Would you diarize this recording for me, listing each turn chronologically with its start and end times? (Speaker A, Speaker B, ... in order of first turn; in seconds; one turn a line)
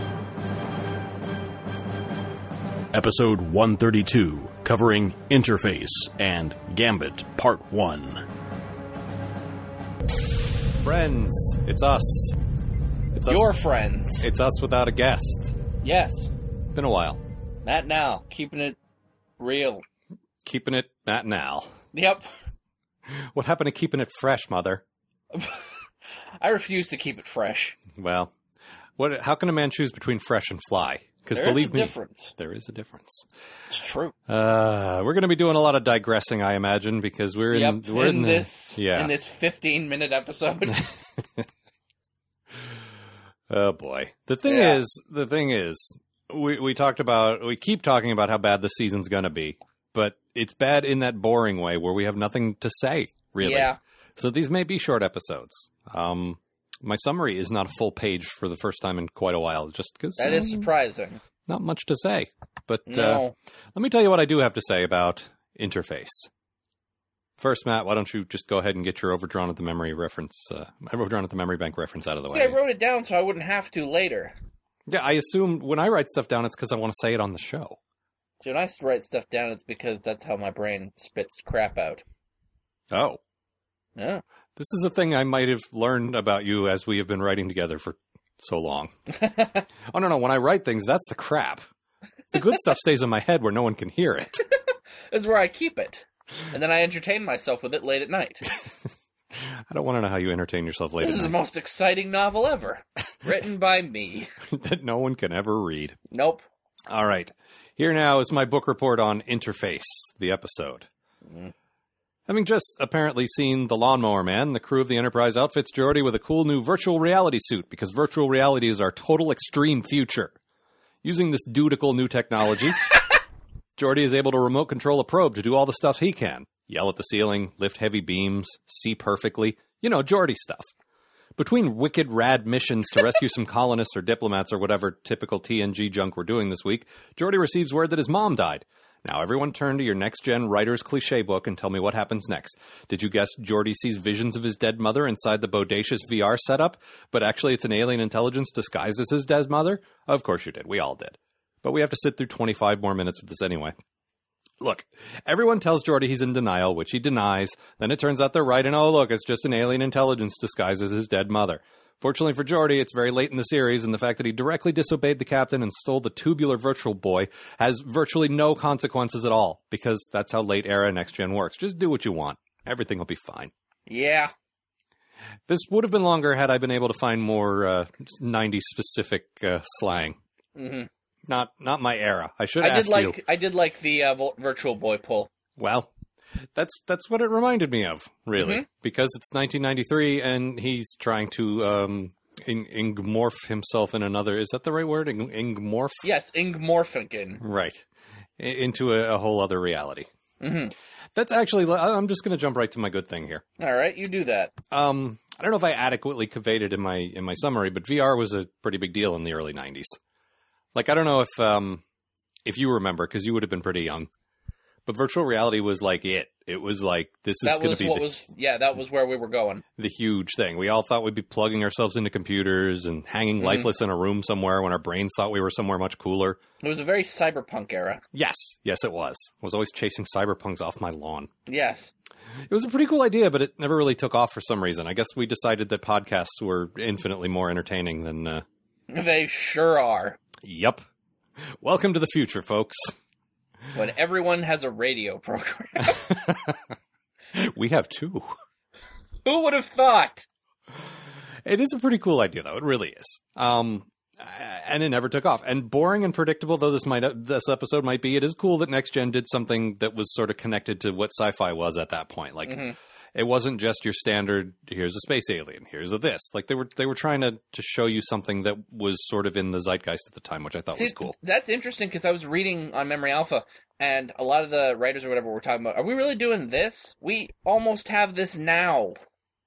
Speaker A: 2.9-8.2
Speaker B: 10.8-12.4
Speaker B: 13.1-13.5
Speaker C: 13.3-14.3
Speaker B: 14.2-15.5
Speaker C: 15.8-16.3
Speaker B: 16.7-17.2
Speaker C: 17.6-18.8
Speaker C: 19.4-19.8
Speaker B: 20.4-21.7
Speaker C: 21.9-22.3
Speaker B: 23.1-24.8
Speaker C: 25.3-25.8
Speaker C: 26.4-27.8
Speaker B: 27.9-28.3
Speaker B: 29.0-33.3
Speaker C: 31.3-32.3
Speaker C: 33.7-34.1
Speaker B: 34.3-39.1
Speaker C: 37.5-40.9
Speaker B: 43.5-60.7
Speaker C: 44.5-44.8
Speaker C: 53.4-53.8
Speaker C: 60.2-61.2
Speaker B: 61.5-63.2
Speaker C: 62.9-63.3
Speaker B: 63.7-66.3
Speaker B: 67.4-72.6
Speaker C: 72.3-74.3
Speaker B: 74.9-77.8
Speaker C: 78.4-82.0
Speaker B: 82.9-83.2
Speaker C: 84.0-84.2
Speaker B: 84.5-88.9
Speaker B: 89.9-91.7
Speaker B: 92.3-94.4
Speaker C: 95.1-98.5
Speaker B: 99.3-101.3
Speaker C: 101.0-104.3
Speaker B: 104.5-106.0
Speaker C: 106.1-106.4
Speaker B: 106.9-110.9
Speaker C: 111.3-111.5
Speaker B: 112.3-120.3
Speaker B: 121.0-122.8
Speaker B: 123.8-130.7
Speaker B: 131.3-153.7
Speaker B: 154.6-173.5
Speaker C: 173.9-174.3
Speaker B: 175.5-180.2
Speaker C: 180.6-180.9
Speaker B: 181.2-183.2
Speaker C: 182.6-185.3
Speaker B: 185.6-185.9
Speaker B: 186.5-196.1
Speaker C: 188.3-188.6
Speaker C: 196.0-197.4
Speaker B: 197.4-197.8
Speaker B: 198.4-200.1
Speaker C: 200.4-200.7
Speaker B: 201.1-203.4
Speaker C: 203.6-204.5
Speaker B: 204.7-210.0
Speaker B: 210.7-211.8
Speaker B: 212.4-214.1
Speaker B: 214.8-218.1
Speaker C: 217.4-219.6
Speaker B: 219.8-226.4
Speaker C: 223.4-223.7
Speaker C: 226.6-228.0
Speaker B: 228.1-231.3
Speaker C: 231.5-231.9
Speaker B: 232.5-238.4
Speaker C: 238.9-240.2
Speaker B: 240.4-240.8
Speaker B: 241.4-242.9
Speaker C: 243.7-246.1
Speaker B: 245.8-246.6
Speaker B: 247.3-248.3
Speaker C: 249.2-250.3
Speaker B: 251.4-262.6
Speaker C: 262.4-262.8
Speaker B: 263.1-271.1
Speaker C: 270.7-278.9